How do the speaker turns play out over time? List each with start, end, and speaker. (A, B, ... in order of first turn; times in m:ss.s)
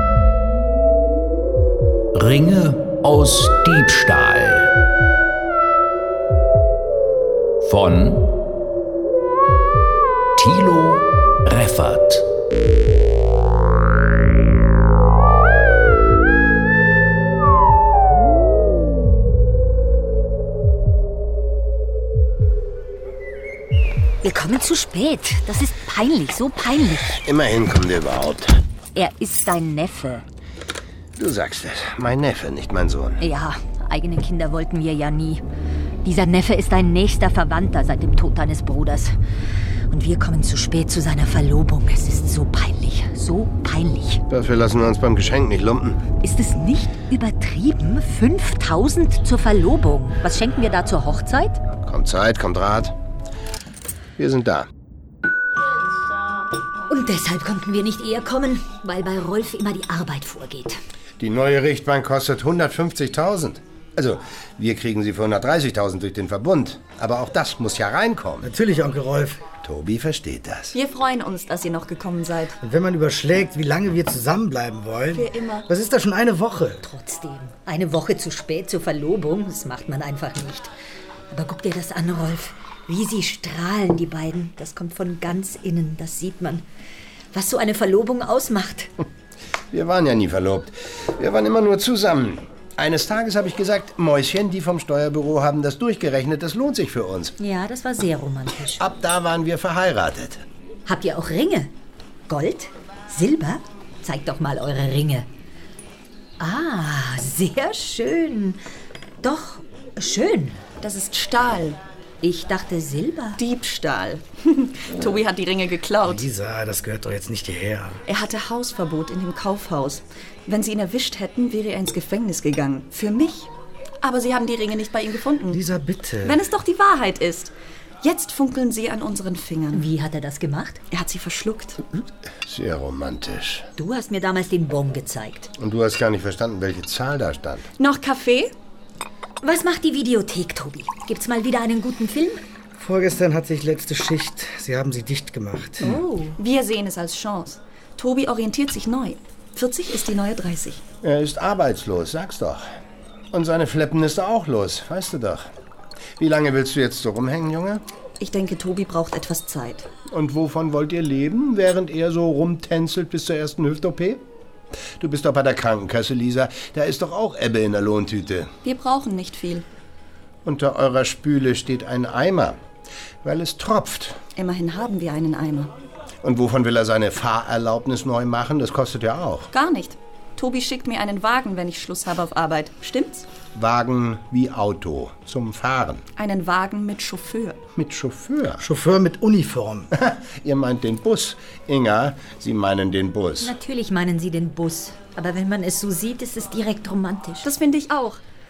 0:02.1-0:04.7 A
0:07.6-0:08.3 A
0:10.4-0:12.2 A
0:24.2-0:27.2 B
0:27.2-0:28.6 C
0:28.9-0:30.2 B
0:31.2-0:33.2 C
0:33.2-0:35.4 B
0:36.0-0:39.1 B
0:39.9-0:44.2 B
0:44.3-0:46.0 C
0:46.2-0:51.6 B
0:51.8-0:52.9 C
0:54.2-0:54.7 C
0:56.9-1:00.8 B
1:01.2-1:08.5 C
1:08.4-1:09.4 D
1:09.6-1:10.7 C
1:10.7-1:12.6 E
1:12.6-1:16.8 D
1:15.1-1:15.7 E
1:16.8-1:20.7 B
1:21.3-1:26.6 B
1:27.3-1:28.9 B
1:29.7-1:37.3 C
1:37.4-1:38.8 B
1:38.8-1:40.4 C
1:40.8-1:41.7 B
1:42.3-1:45.3 B
1:46.4-1:48.6 B
1:49.2-1:50.6 B
1:50.8-1:51.8 E
1:52.2-1:53.4 B
1:53.4-1:56.2 E
1:56.0-1:58.0 D
1:58.1-2:03.5 E
2:04.0-2:05.6 E
2:05.5-2:06.4 D
2:06.2-2:09.9 E
2:09.7-2:10.8 B
2:10.9-2:12.0 E
2:12.4-2:13.7 C
2:13.8-2:15.5 B
2:15.6-2:17.6 C
2:17.8-2:18.5 E
2:19.4-2:22.4 B
2:22.8-2:26.0 D
2:25.8-2:26.4 B
2:26.4-2:30.8 E
2:31.0-2:32.6 C
2:33.3-2:35.5 C
2:36.2-2:37.8 C
2:38.2-2:39.9 E
2:40.1-2:44.2 C
2:45.0-2:48.5 C
2:48.6-2:49.6 E
2:50.4-2:52.6 C
2:53.2-2:54.2 C
2:54.4-2:55.7 E
2:56.2-2:59.5 C
2:59.5-3:03.3 E
3:03.5-3:06.0 C
3:06.2-3:07.6 E
3:07.8-3:08.6 C
3:08.6-3:09.9 D
3:09.9-3:13.5 C
3:13.4-3:17.5 B
3:17.4-3:18.2 E